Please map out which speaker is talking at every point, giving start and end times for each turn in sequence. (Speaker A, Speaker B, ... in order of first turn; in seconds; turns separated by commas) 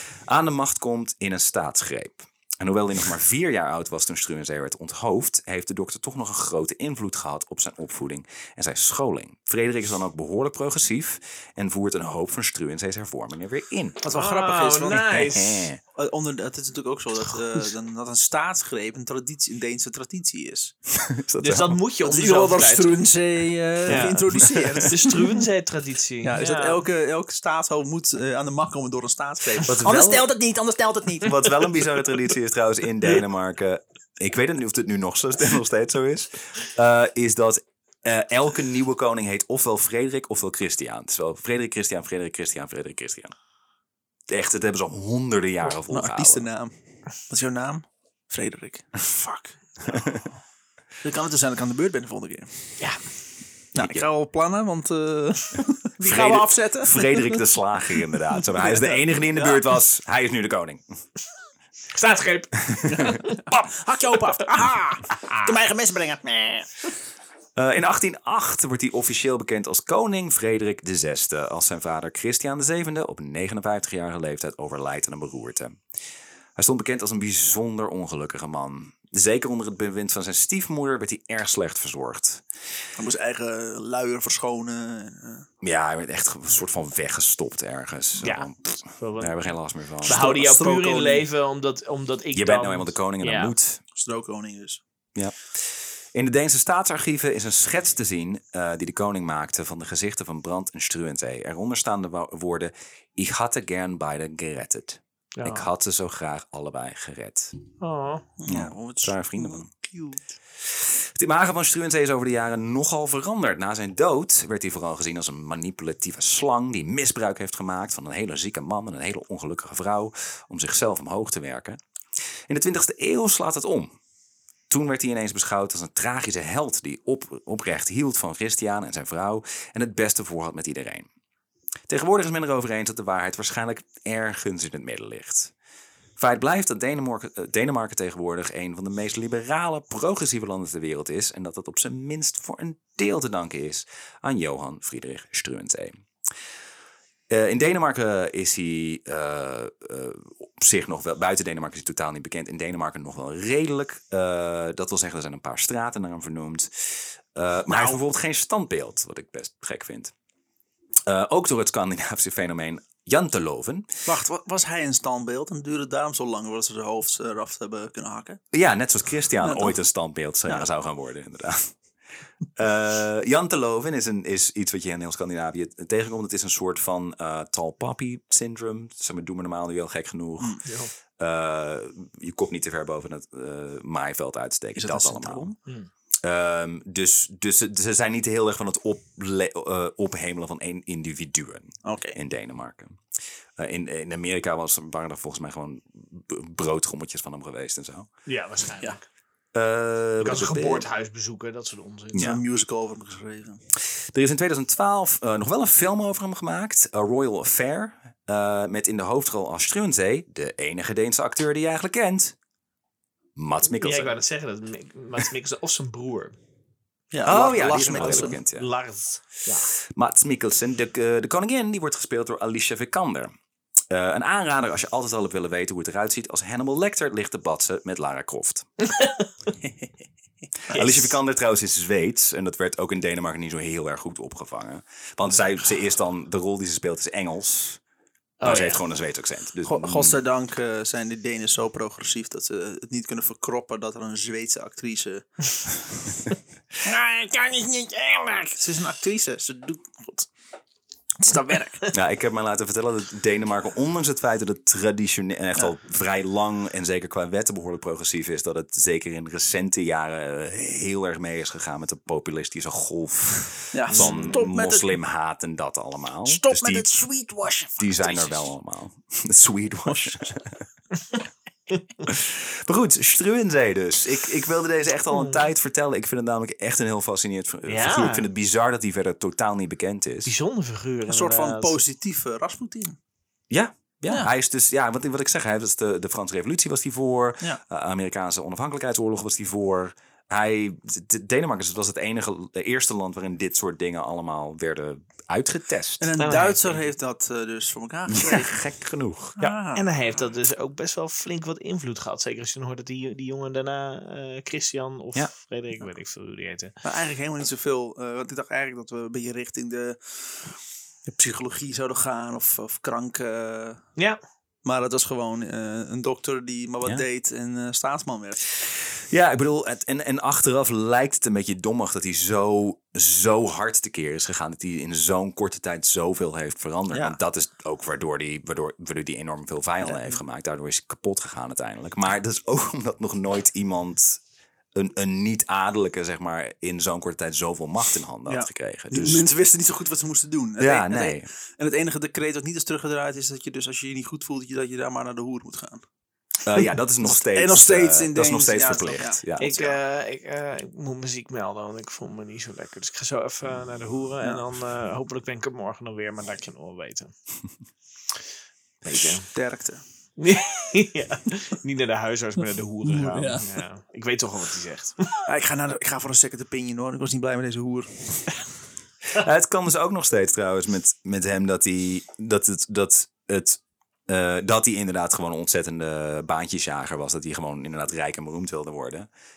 Speaker A: 0.3-14.0, Speaker B: 14.0-15.2, Speaker C: 14.1-15.7, Speaker A: 14.9-15.8, Speaker B: 15.9-20.7, Speaker A: 20.9-21.8, Speaker C: 21.4-23.0, Speaker B: 22.0-25.4, Speaker C: 23.9-26.8, Speaker A: 23.9-24.9, Speaker B: 26.2-31.6, Speaker A: 29.6-30.3, Speaker A: 31.2-43.4, Speaker A: 44.3-46.5, Speaker B: 45.9-46.7, Speaker B: 47.3-50.1, Speaker A: 49.9-50.3, Speaker B: 51.0-52.5, Speaker B: 53.7-57.4, Speaker A: 53.8-54.0, Speaker A: 56.0-60.8, Speaker B: 58.6-59.6, Speaker C: 61.9-63.4, Speaker A: 62.7-63.0, Speaker B: 62.9-66.7, Speaker A: 67.6-75.8, Speaker A: 76.6-82.4, Speaker B: 83.0-85.5, Speaker A: 85.6-90.3, Speaker C: 88.2-89.5, Speaker C: 90.0-93.5, Speaker B: 90.1-91.2, Speaker A: 92.3-93.8, Speaker B: 94.0-94.8, Speaker A: 96.1-107.5, Speaker C: 105.4-105.7, Speaker C: 107.8-108.2, Speaker B: 108.4-110.3, Speaker A: 108.5-109.7, Speaker A: 110.7-121.8, Speaker A: 122.5-123.9, Speaker A: 124.7-131.1, Speaker A: 131.9-135.5, Speaker A: 136.2-146.0, Speaker A: 147.3-160.1, Speaker B: 157.7-158.0, Speaker A: 161.1-163.9, Speaker B: 164.1-168.4, Speaker A: 168.5-171.7, Speaker B: 169.4-169.8, Speaker A: 172.6-180.6, Speaker C: 180.7-180.9, Speaker A: 181.2-185.6, Speaker B: 184.8-185.5, Speaker A: 186.2-193.0, Speaker B: 191.8-192.2, Speaker A: 193.6-198.1, Speaker C: 198.3-199.0, Speaker A: 199.5-200.9, Speaker C: 200.2-202.3, Speaker A: 202.1-202.4, Speaker B: 202.2-203.6, Speaker A: 204.1-212.4, Speaker A: 213.4-214.2, Speaker C: 213.6-216.4, Speaker B: 217.1-218.4, Speaker A: 217.2-218.7, Speaker C: 217.9-219.7, Speaker A: 219.9-223.3, Speaker A: 223.9-228.7, Speaker C: 228.8-229.3, Speaker B: 229.6-229.9, Speaker A: 230.7-237.8, Speaker C: 230.7-231.2, Speaker C: 238.4-238.8, Speaker A: 238.4-240.2, Speaker B: 239.7-245.3, Speaker B: 246.8-250.3, Speaker B: 251.2-251.9, Speaker A: 251.9-266.9, Speaker B: 263.7-264.9, Speaker C: 263.9-264.4, Speaker B: 266.2-268.5, Speaker A: 267.8-270.6, Speaker B: 269.9-270.3, Speaker A: 272.1-280.3, Speaker C: 277.7-278.3, Speaker C: 280.2-281.8, Speaker B: 281.1-283.0, Speaker A: 283.5-296.1, Speaker B: 296.0-298.6, Speaker C: 296.2-296.8, Speaker A: 298.1-299.4, Speaker B: 299.4-299.9, Speaker C: 299.7-306.7, Speaker B: 306.8-310.4, Speaker B: 311.1-313.8, Speaker B: 314.6-318.4, Speaker A: 318.9-334.2, Speaker B: 329.8-330.1, Speaker A: 334.7-339.2, Speaker B: 338.3-345.8, Speaker A: 340.6-341.3, Speaker A: 346.4-349.6, Speaker B: 346.6-349.8, Speaker C: 349.4-357.1, Speaker A: 358.9-359.1, Speaker C: 358.9-359.3, Speaker B: 359.2-359.8, Speaker C: 360.2-365.2, Speaker B: 362.8-363.5, Speaker B: 365.3-368.3, Speaker A: 369.1-379.1